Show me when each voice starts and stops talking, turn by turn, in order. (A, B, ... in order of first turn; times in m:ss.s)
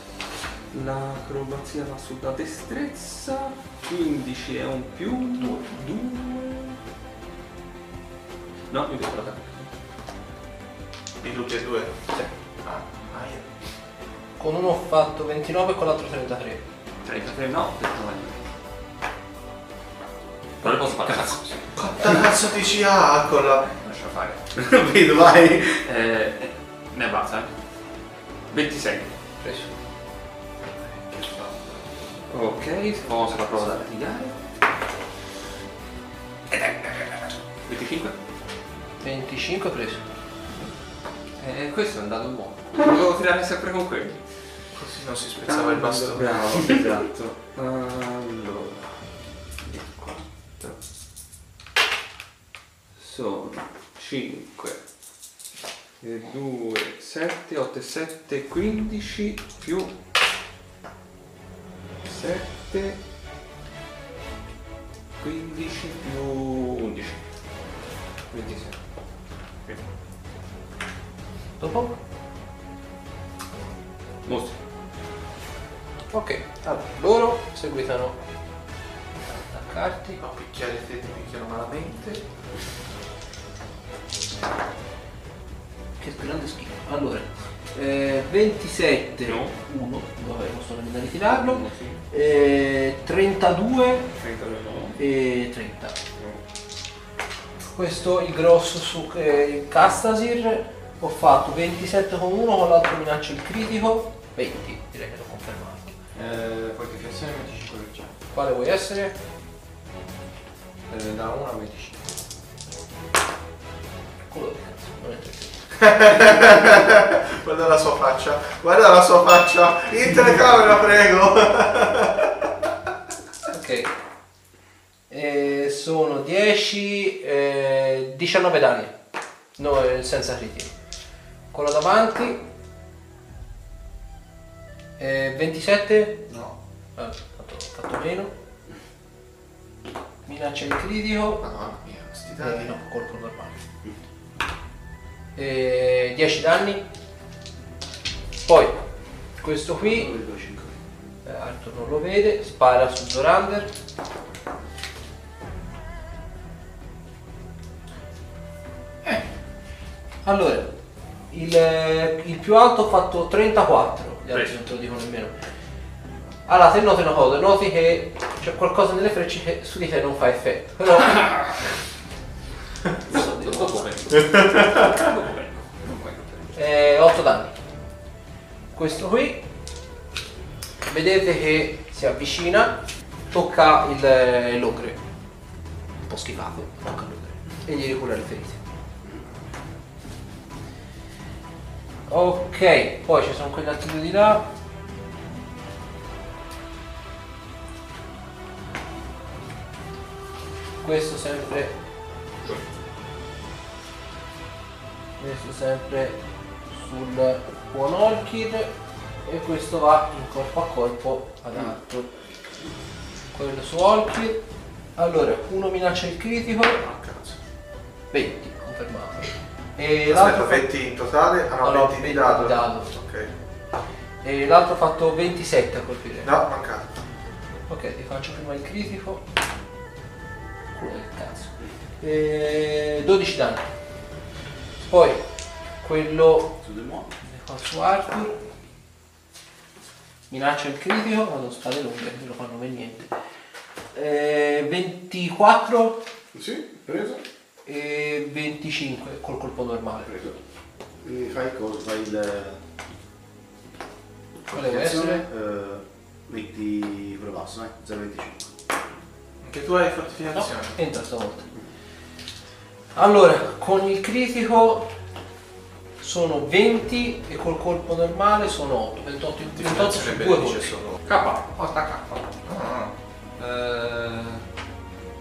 0:00.7-0:06.8 A
0:08.7-0:09.7 A
0:11.2-0:11.9 B
0:12.6-0:13.5 B
0:14.4-0:16.6 C
0:17.0-0:18.4 A
0:20.6-0:21.5 A
0:21.7-0:23.8 B
0:23.8-0:24.4 A
0:24.5-0:25.8 D
0:25.8-0:27.5 A
0:28.5-0:29.1 A
0:29.4-0:29.7 C
0:31.1-0:31.8 B
0:32.3-0:34.3 A
0:36.5-0:38.1 A
0:39.0-0:40.0 C
0:41.4-0:44.2 A
0:44.7-0:46.6 B
0:45.4-0:48.9 A
0:49.6-0:50.8 A
0:53.0-0:54.8 A
0:56.0-0:59.9 A
1:02.0-1:03.0 A
1:05.2-1:07.2 A
1:08.3-1:08.8 A
1:11.6-1:12.0 C
1:14.2-1:14.6 A
1:16.1-1:18.2 C
1:19.3-1:20.2 C
1:20.2-1:22.2 B
1:26.0-1:34.1 C
1:29.2-1:29.5 A
1:31.3-1:32.0 A
1:34.1-1:35.0 A
1:35.0-1:36.0 C
1:37.7-1:45.9 C
1:46.1-1:48.1 E
1:48.3-1:49.1 C
1:50.9-1:52.1 E
1:54.3-1:55.5 C
1:55.8-2:02.5 B
2:03.5-2:03.9 C
2:05.1-2:08.9 C
2:09.6-2:10.7 C
2:11.5-2:12.4 C
2:15.0-2:16.2 C
2:16.3-2:16.5 E
2:17.0-2:18.3 C
2:20.2-2:21.4 C
2:21.4-2:22.7 B
2:22.4-2:23.6 C
2:25.4-2:26.8 C
2:28.4-2:28.8 C
2:29.4-2:30.1 C
2:29.8-2:30.7 D
2:31.2-2:33.7 C
2:40.2-2:40.7 C
2:41.3-2:45.3 C
2:46.5-2:51.6 C
2:53.1-2:53.8 C
2:53.1-2:56.5 A
2:54.2-2:54.9 B
2:56.5-2:57.5 C
2:58.7-2:59.4 C
3:00.9-3:02.8 C
3:03.3-3:05.0 C
3:06.0-3:08.6 C
3:12.1-3:14.4 C
3:20.8-3:21.7 C
3:25.2-3:26.2 C
3:26.7-3:28.7 C
3:29.2-3:32.1 C
3:33.3-3:34.4 C
3:35.0-3:36.8 C
3:36.7-3:37.4 B
3:38.1-3:40.6 C
3:40.1-3:43.3 B
3:41.6-3:42.9 C
3:44.2-3:46.3 C
3:46.2-3:46.9 B
3:47.7-3:49.2 C
3:50.7-3:53.6 C
3:54.8-3:55.2 C
3:55.8-3:56.6 C
3:56.6-3:57.1 D
3:57.2-3:58.4 C
4:00.3-4:03.1 C
4:03.9-4:06.0 C
4:06.3-4:07.2 D
4:07.6-4:10.1 C
4:10.0-4:10.4 D
4:11.0-4:12.6 D
4:14.5-4:18.7 D
4:14.5-4:15.2 C
4:19.4-4:20.8 B
4:20.3-4:21.5 C
4:22.9-4:24.9 C
4:26.0-4:30.8 C
4:29.6-4:31.0 B
4:31.0-4:31.4 A
4:31.1-4:32.3 E
4:32.4-4:32.9 B
4:33.4-4:34.4 E